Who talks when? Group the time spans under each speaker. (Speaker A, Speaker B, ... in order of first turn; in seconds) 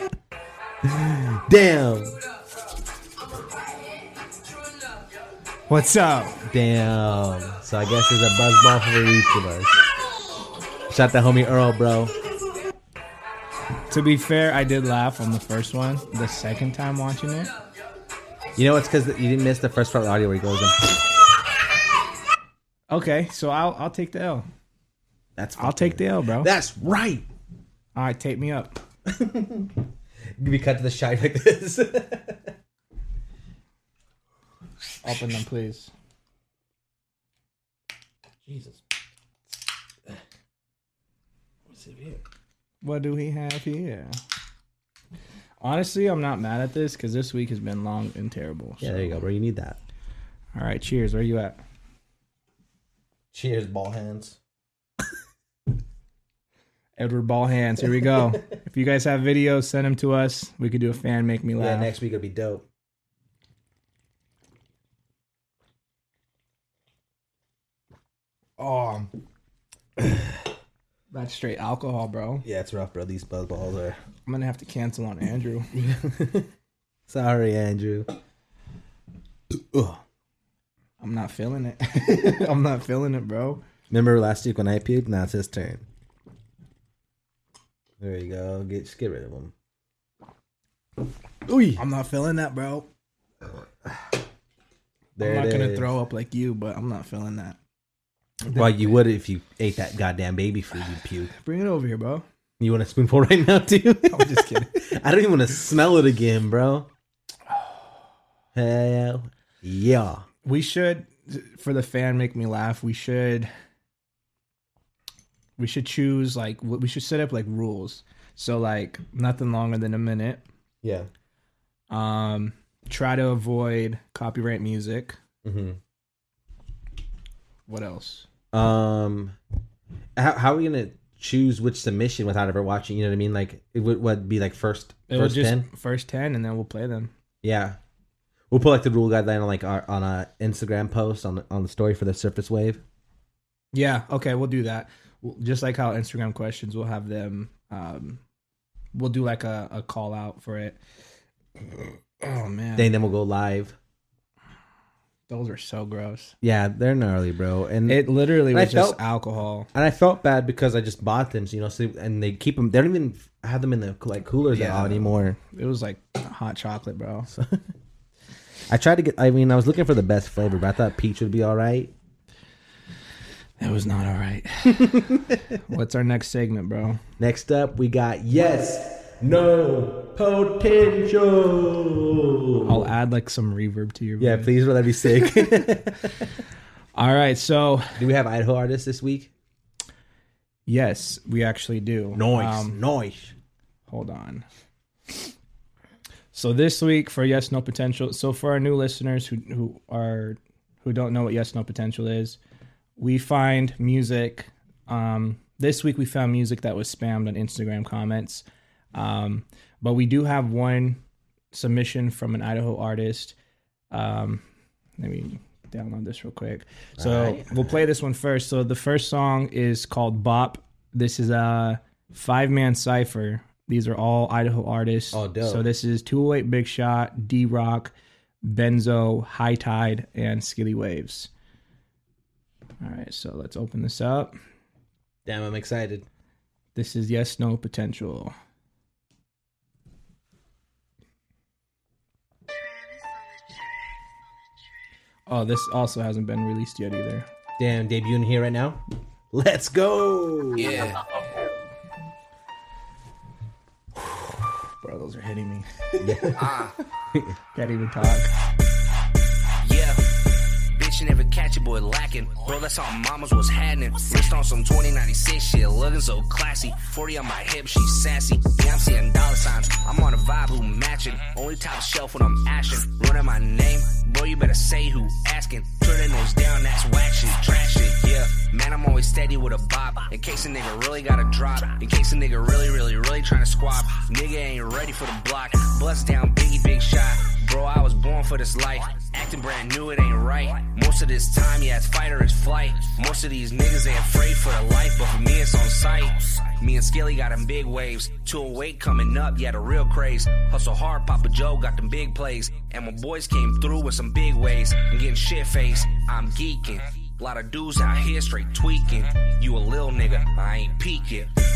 Speaker A: 0.8-2.2, 6.4-9.8, 10.9-12.1, 18.6-21.0, 25.4-27.3, 29.1-29.8, 30.4-32.5, 38.4-38.8, 41.7-42.2, 48.8-49.8, 53.3-54.4, 61.6-62.6, 72.4-74.0, 75.7-76.5, 77.1-78.1, 79.5-80.0, 83.9-85.8, 88.0-89.5, 91.5-91.8, 95.2-95.9, 98.5-101.3, 102.6-106.9, 108.5-110.2, 120.8-121.1, 125.4-125.8, 128.5-129.3, 130.2-135.7, 137.4-137.8, 138.5-142.8, 152.8-153.8, 156.4-159.0, 159.7-165.4, 167.3-167.6, 168.7-171.9, 177.2-182.9, 184.2-186.3, 188.0-189.3, 192.1-193.3, 217.0-217.8, 225.1-225.7, 235.2-236.1, 247.6-248.8, 249.3-250.9, 256.0-256.4
Speaker B: 5.7-6.4, 13.9-17.5, 22.9-24.4, 25.6-26.5, 27.9-28.8, 35.0-35.9, 42.8-44.1, 45.6-49.2, 50.5-51.6, 57.0-61.9, 68.6-69.1, 71.1-72.4, 74.2-75.7, 81.0-83.6, 91.8-92.9, 95.2-97.6, 98.5-98.8, 101.3-102.2, 104.1-104.7, 110.4-113.5, 115.6-120.4, 121.9-125.2, 127.7-128.3, 135.1-137.1, 143.7-148.2, 148.9-150.8, 152.2-152.9, 155.3-156.3, 157.8-159.7, 164.5-167.3, 173.6-177.0, 182.6-184.5, 185.1-185.6, 186.9-188.0, 190.7-192.8, 193.9-194.4, 196.3-202.4, 203.0-211.0, 211.5-213.3, 213.9-214.4, 215.0-227.9, 228.4-231.3, 232.8-234.3, 236.7-238.3, 245.3-247.3, 254.8-256.4, 257.5-258.3
Speaker C: 250.6-250.9, 256.4-256.7, 259.6-260.0, 260.7-311.3